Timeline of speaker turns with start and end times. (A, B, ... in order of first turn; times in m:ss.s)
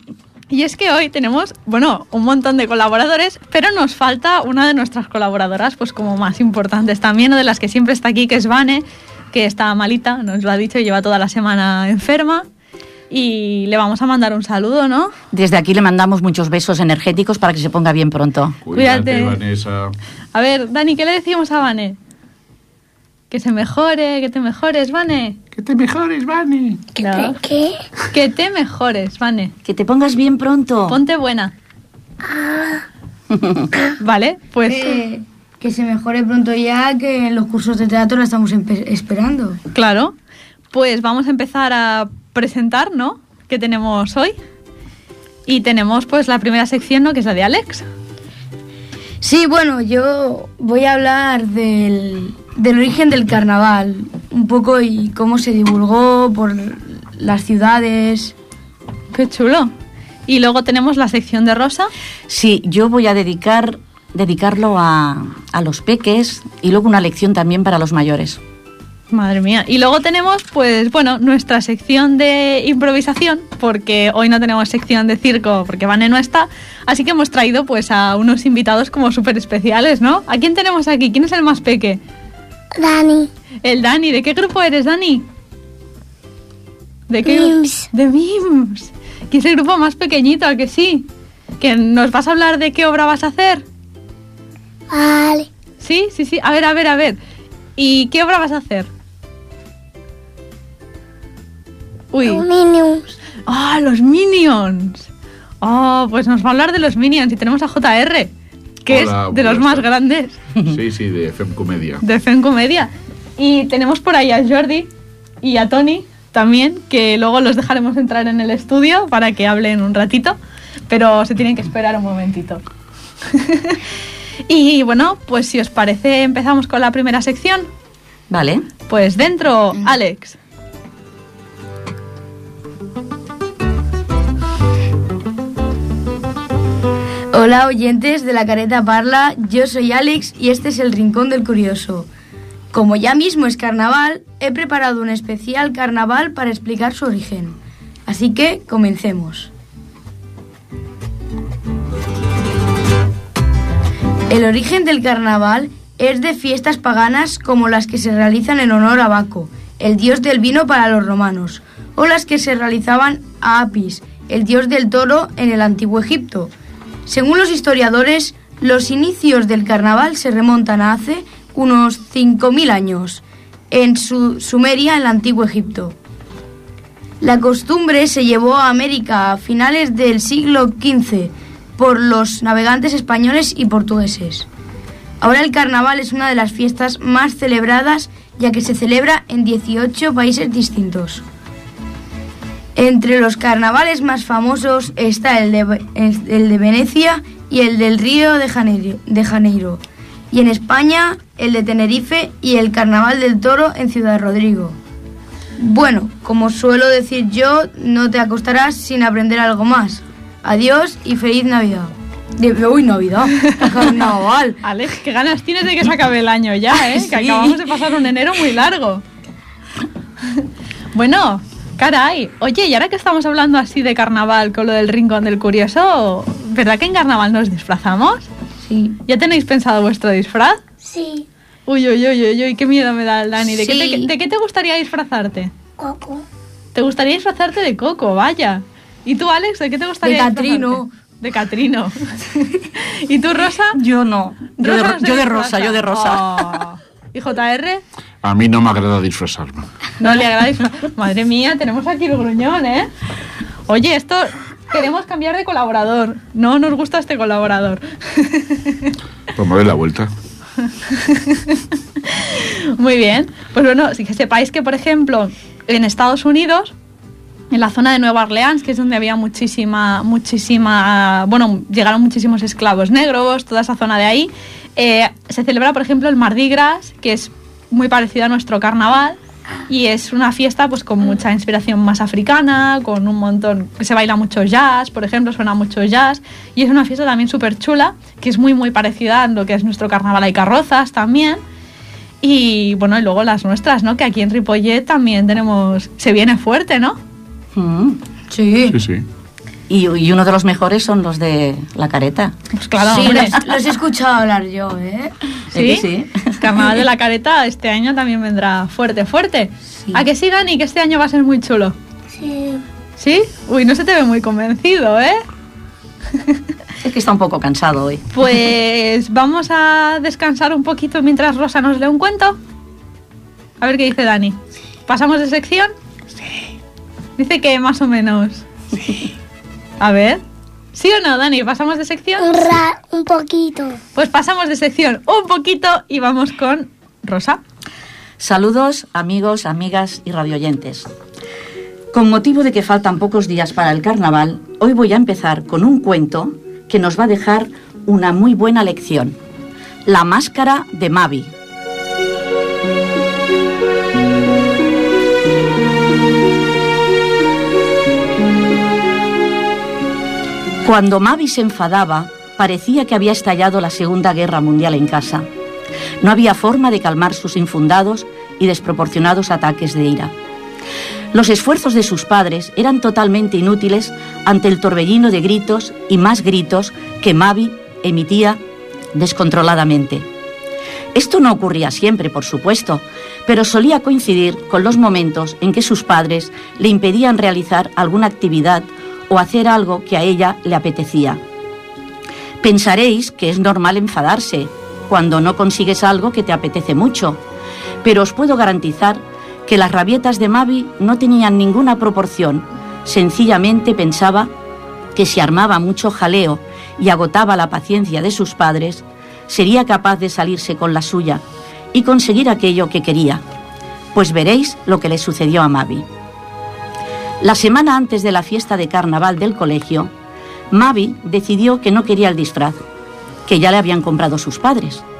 0:00.5-0:12.5 A
0:13.1-0:15.1 A
0:15.3-0:18.6 B
0:18.6-0:19.9 C
0:18.7-0:19.4 A
0:20.3-0:22.0 A
0:23.3-0:25.4 A
0:25.6-0:26.8 C
0:27.0-0:27.8 D
0:27.0-0:27.4 A
0:28.1-0:29.5 A
0:29.7-0:31.0 B
0:30.9-0:31.5 A
0:32.2-0:32.8 D
0:33.3-0:33.7 B
0:34.0-0:35.0 A
0:34.7-0:39.6 E
0:39.7-0:40.2 A
0:40.7-0:44.4 A
0:45.5-0:47.9 A
0:49.2-0:58.3 E
0:59.1-0:59.7 A
1:00.3-1:01.9 A
1:02.3-1:08.4 B
1:09.1-1:22.0 A
1:22.8-1:23.3 D
1:23.6-1:25.2 A
1:27.1-1:31.1 A
1:27.2-1:27.9 D
1:31.6-1:33.6 A
1:34.9-1:35.5 D
1:35.8-1:37.2 A
1:37.8-1:38.9 A
1:42.1-1:42.4 A
1:42.2-1:43.2 D
1:43.5-1:45.1 A
1:45.6-1:48.3 A
1:48.9-1:50.4 A
1:48.9-1:49.9 C
1:50.6-1:52.0 C
1:52.0-1:54.9 A
1:55.4-2:00.4 A
2:00.9-2:02.6 A
2:03.3-2:03.8 A
2:04.5-2:07.7 A
2:08.3-2:08.7 B
2:08.9-2:10.4 A
2:17.3-2:22.1 E
2:22.7-2:27.6 E
2:28.1-2:29.5 E
2:34.3-2:46.5 E
2:47.1-2:56.0 E
2:57.2-3:04.5 E
3:05.2-3:11.2 E
3:12.8-3:24.8 E
3:25.6-3:34.6 E
3:34.6-3:39.0 A
3:36.9-3:37.6 E
3:40.9-3:48.3 A
3:48.6-3:49.0 E
3:49.1-3:50.6 A
3:50.8-3:51.3 D
3:51.7-3:55.5 A
3:53.5-3:54.1 E
3:55.8-3:56.2 D
3:56.8-4:03.8 A
4:00.0-4:00.9 E
4:03.7-4:06.4 B
4:04.6-4:07.8 A
4:08.2-4:09.6 C
4:10.0-4:12.9 A
4:13.7-4:18.9 A
4:19.4-4:20.1 C
4:20.9-4:26.7 A
4:27.5-4:39.2 A
4:39.7-4:51.4 A
4:52.2-4:57.0 A
4:57.6-4:58.0 B
4:58.3-4:58.8 E
4:58.7-4:59.0 C
4:59.7-5:02.4 B
5:02.5-5:03.4 A
5:02.8-5:05.1 E
5:02.9-5:03.5 B
5:05.5-5:06.4 B
5:05.5-5:11.8 A
5:12.1-5:12.6 D
5:13.0-5:15.2 A
5:16.8-5:18.1 B
5:18.1-5:22.4 A
5:23.6-5:25.7 A
5:27.2-5:28.5 A
5:29.8-5:30.2 A
5:30.7-5:32.5 A
5:32.2-5:33.8 D
5:34.0-5:37.4 A
5:38.2-5:40.9 B
5:41.9-5:49.2 B
5:49.9-5:51.3 B
6:00.6-6:05.3 B
6:06.0-6:10.1 B
6:11.1-6:18.4 B
6:18.9-6:20.1 B
6:20.9-6:31.2 B
6:32.4-6:37.2 B
6:37.8-6:44.3 B
6:45.0-6:51.2 B
6:51.7-6:53.2 B
6:53.9-6:55.9 B
6:57.2-6:59.9 B
7:00.5-7:02.6 B
7:03.3-7:04.8 B